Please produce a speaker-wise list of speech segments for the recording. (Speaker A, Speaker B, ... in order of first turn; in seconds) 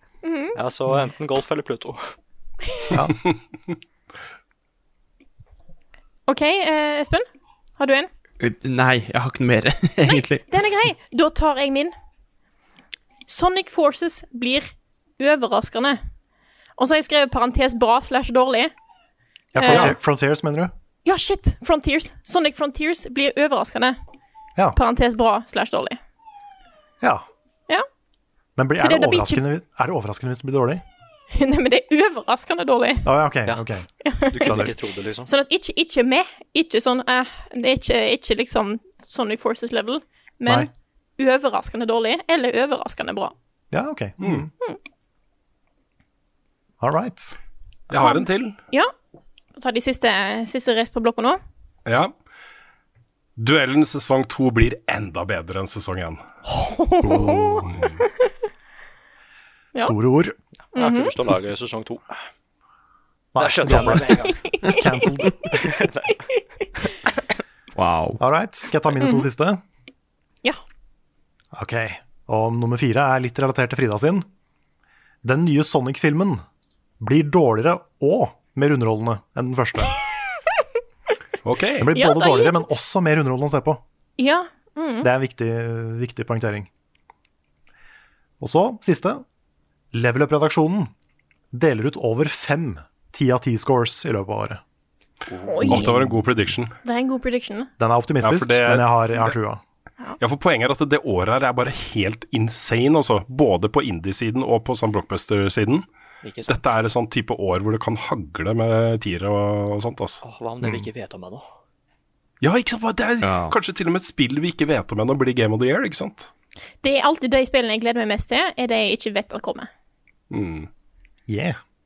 Speaker A: 0.2-0.6, 6.3-7.3, 7.8-8.1, 10.1-11.9, 13.3-16.0, 16.8-18.7, 19.6-19.9, 21.1-24.0, 24.7-26.0, 28.8-29.4, 31.3-33.1, 34.0-34.7, 35.3-43.3, 47.9-48.9, 49.5-51.4, 56.5-57.7, 60.8-61.1, 64.2-65.0, 69.0-69.3, 81.9-82.7, 84.2-85.1, 95.5-95.9, 96.8-97.7, 116.8-119.7
Speaker B: 0.6-2.2, 33.5-35.3, 60.7-62.2, 63.4-64.4, 65.6-66.2, 95.3-95.7, 106.2-106.7, 110.2-111.5
Speaker C: 2.9-3.2, 19.5-20.7, 28.6-30.8, 33.0-33.9, 34.5-34.7, 43.7-44.5, 46.8-47.4, 57.0-57.9, 59.8-60.4, 63.4-65.5, 68.2-69.6, 71.5-74.3, 75.2-76.4, 77.0-80.0, 81.8-83.8, 85.0-86.7, 88.4-89.2, 89.9-90.9, 91.5-94.6, 95.7-96.2, 97.8-99.6, 110.6-110.9, 121.3-121.6
Speaker D: 8.4-10.5, 67.8-68.2, 113.2-113.5
Speaker E: 19.7-19.9, 44.2-44.5, 47.9-48.6, 51.9-52.1, 53.4-56.2, 57.6-58.0, 81.4-81.9, 95.6-96.8, 98.2-99.3, 100.2-105.8, 106.5-110.2, 112.4-116.3, 120.3-120.7